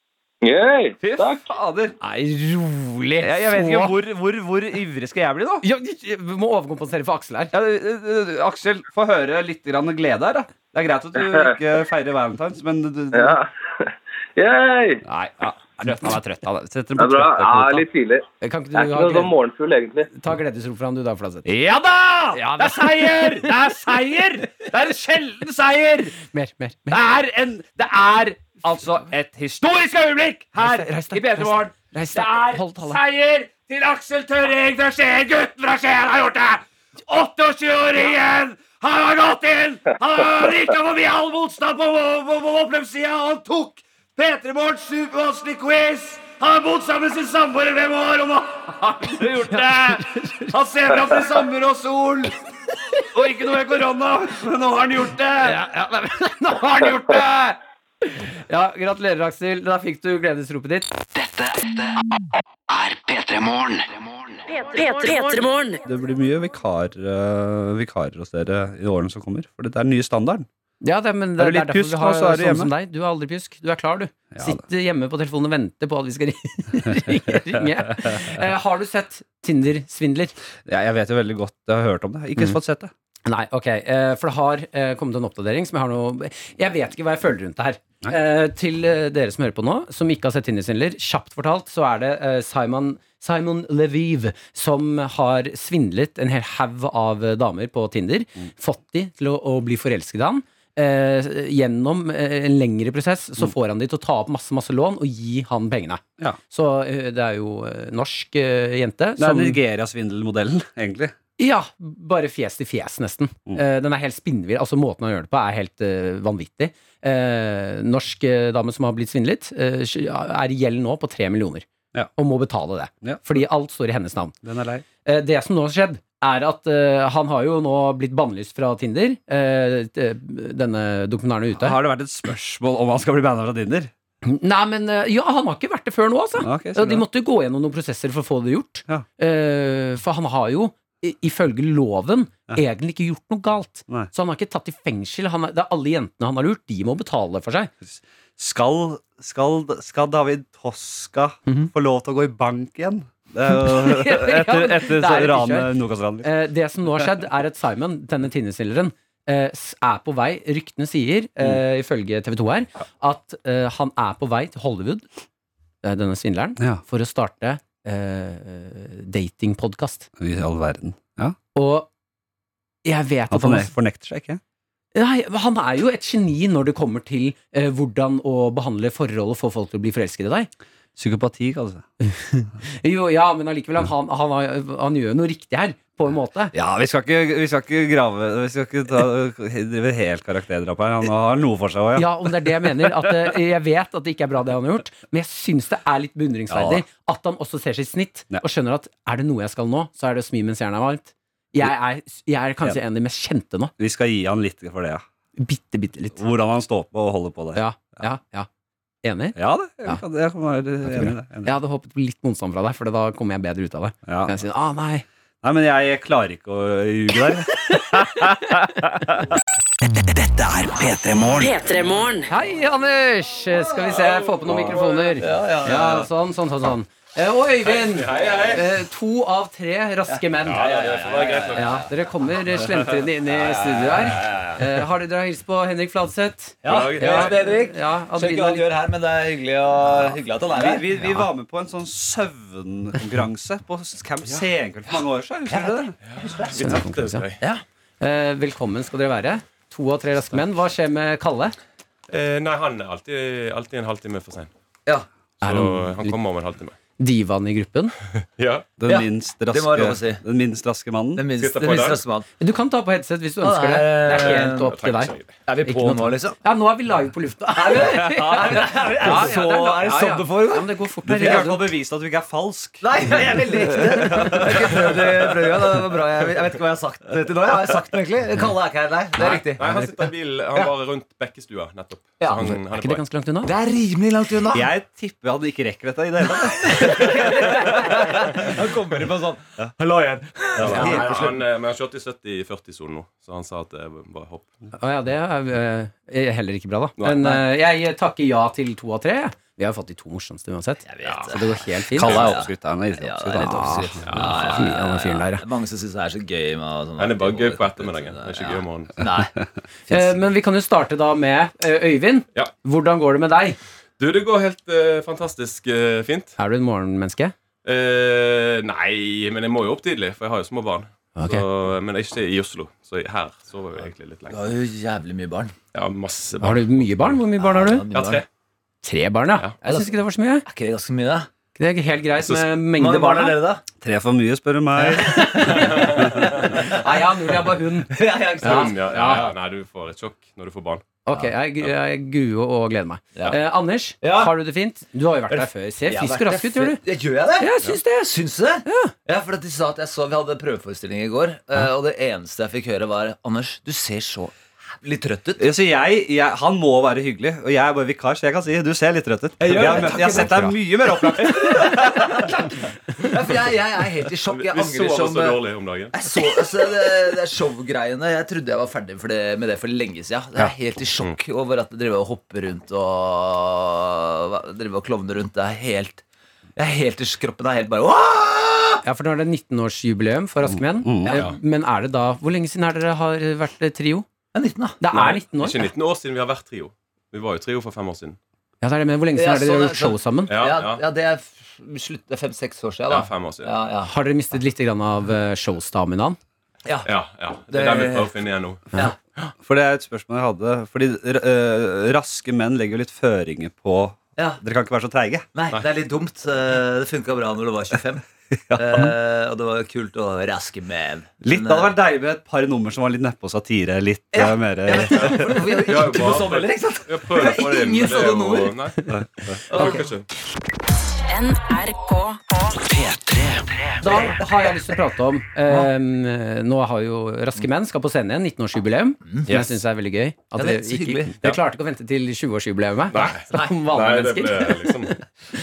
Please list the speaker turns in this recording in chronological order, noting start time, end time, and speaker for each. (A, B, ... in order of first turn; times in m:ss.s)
0:00.4-0:01.5 A
0:01.0-0:02.0 B
0:02.0-0:04.0 C
0:03.2-0:05.6 B
0:05.6-0:07.5 C
0:07.5-0:13.4 B
0:11.2-0:11.6 A
0:13.1-0:15.0 A
0:15.0-0:17.9 B
0:17.0-0:20.1 A
0:18.4-0:19.3 C
0:20.1-0:21.5 C
0:21.5-0:26.2 B
0:22.3-0:23.5 C
0:26.2-0:27.0 C
0:26.9-0:52.3 B
0:30.6-0:33.0 C
0:50.0-0:50.3 C
0:53.1-0:55.6 B
0:55.4-1:01.0 C
1:01.2-1:01.9 D
1:02.7-1:04.4 D
1:04.7-1:05.8 E
1:05.8-1:10.5 B
1:10.8-1:20.3 C
1:11.4-1:12.7 B
1:14.3-1:14.6 B
1:17.3-1:18.1 B
1:20.7-1:22.9 B
1:23.3-1:49.6 C
1:49.2-1:51.1 B
1:51.4-2:04.4 C
2:03.0-2:03.4 B
2:04.4-2:04.8 B
2:05.0-2:11.8 C
2:11.6-2:13.9 B
2:14.2-2:27.7 C
2:16.4-2:17.1 B
2:27.8-2:36.3 B
2:33.6-2:45.1 C
2:45.8-2:50.1 C
2:50.2-2:51.4 B
2:51.6-2:51.9 C
2:52.8-2:53.7 C
2:53.3-2:54.4 B
2:54.9-3:00.5 C
3:01.0-3:01.9 B
3:02.8-3:06.5 C
3:06.5-3:13.2 B
3:12.0-3:23.7 C
3:16.5-3:16.8 B
3:23.8-3:25.0 B
3:25.4-3:26.2 C
3:26.2-3:27.6 B
3:27.6-3:28.5 C
3:29.0-3:30.0 C
3:29.4-3:31.5 B
3:30.9-3:35.0 C
3:34.1-3:34.4 B
3:35.4-3:39.2 B
3:40.0-3:41.6 D
3:41.4-3:42.3 E
3:42.3-3:50.8 C
3:44.0-3:45.0 F
3:45.2-3:46.1 G
3:47.6-3:48.7 F
3:50.1-3:51.8 G
3:50.4-3:51.8 F
3:51.5-3:58.7 C
3:53.5-3:54.4 G
3:56.6-4:01.2 G
3:56.6-3:57.4 F
4:00.5-4:06.0 B
4:05.5-4:06.8 G
4:06.0-4:07.4 F
4:06.6-4:07.2 C
4:08.0-4:11.6 C
4:12.1-4:14.5 F
4:15.4-4:16.2 C
4:15.4-4:16.8 F
4:17.0-4:17.9 C
4:18.4-4:18.7 F
4:18.8-4:21.2 B
4:18.8-4:20.2 G
4:21.2-4:22.3 G
4:21.3-4:22.0 F
4:22.4-4:31.7 C
4:23.4-4:24.8 G
4:24.1-4:25.4 F
4:25.5-4:26.4 G
4:27.6-4:30.7 G
4:31.0-4:34.7 B
4:32.8-4:39.7 G
4:39.6-4:43.0 F
4:39.6-4:40.0 C
4:42.2-4:42.5 G
4:42.4-4:43.5 C
4:43.5-4:44.7 G
4:44.5-4:47.9 B
4:46.6-4:49.4 G
4:49.8-4:54.5 F
4:50.4-4:51.4 G
4:50.6-4:51.2 B
4:54.8-5:02.4 C
4:57.0-4:57.4 F
5:00.9-5:09.3 G
5:02.0-5:04.0 B
5:02.1-5:02.3 F
5:03.4-5:05.4 C
5:04.0-5:04.5 F
5:07.0-5:09.0 F
5:09.9-5:10.1 G
5:09.9-5:13.6 C
5:14.0-5:16.3 F
5:16.4-5:17.4 C
5:17.6-5:24.4 F
5:21.2-5:21.5 C
5:24.3-5:25.5 G
5:25.7-5:27.2 F
5:26.4-5:27.9 C
5:27.4-5:28.2 G
5:27.9-5:28.2 F
5:28.8-5:30.5 C
5:29.6-5:29.9 G
5:30.5-5:31.3 G
5:31.6-5:33.4 C
5:32.2-5:32.4 F
5:32.8-5:33.6 G
5:33.8-5:35.2 B
5:34.9-5:39.3 C
5:35.1-5:35.4 G
5:35.4-5:36.6 F
5:37.9-5:39.3 G
5:38.4-5:41.0 F
5:41.0-5:46.8 C
5:44.0-5:44.3 G
5:45.3-5:55.5 G
5:47.4-5:48.1 C
5:48.6-5:48.9 C
5:55.4-6:02.1 B
5:59.4-6:02.4 G
6:03.1-6:16.0 G
6:04.3-6:06.0 F
6:16.6-6:18.8 G
6:18.8-6:24.1 C
6:20.5-6:21.2 B
6:21.1-6:21.4 F
6:24.3-6:25.0 G
6:24.8-6:25.7 C
6:24.9-6:28.2 F
6:28.6-6:30.4 C
6:29.2-6:33.9 G
6:30.3-6:30.9 F
6:32.9-6:33.5 F
6:33.8-6:36.2 C
6:36.7-6:36.9 G
6:36.8-6:39.3 F
6:37.5-6:38.2 G
6:39.4-6:45.3 B
6:44.2-6:44.4 G
6:45.3-6:51.7 G
6:48.5-6:48.9 B
6:51.2-6:55.2 B
6:54.1-6:58.6 G
6:54.8-6:58.8 F
6:59.5-6:59.9 G
6:59.5-7:00.1 F
6:59.6-6:59.8 C
7:01.1-7:02.2 E
7:02.6-7:03.7 D
7:03.8-7:15.0 C
7:03.8-7:04.4 G
7:09.1-7:09.4 G
7:10.4-7:11.2 G
7:12.9-7:14.9 F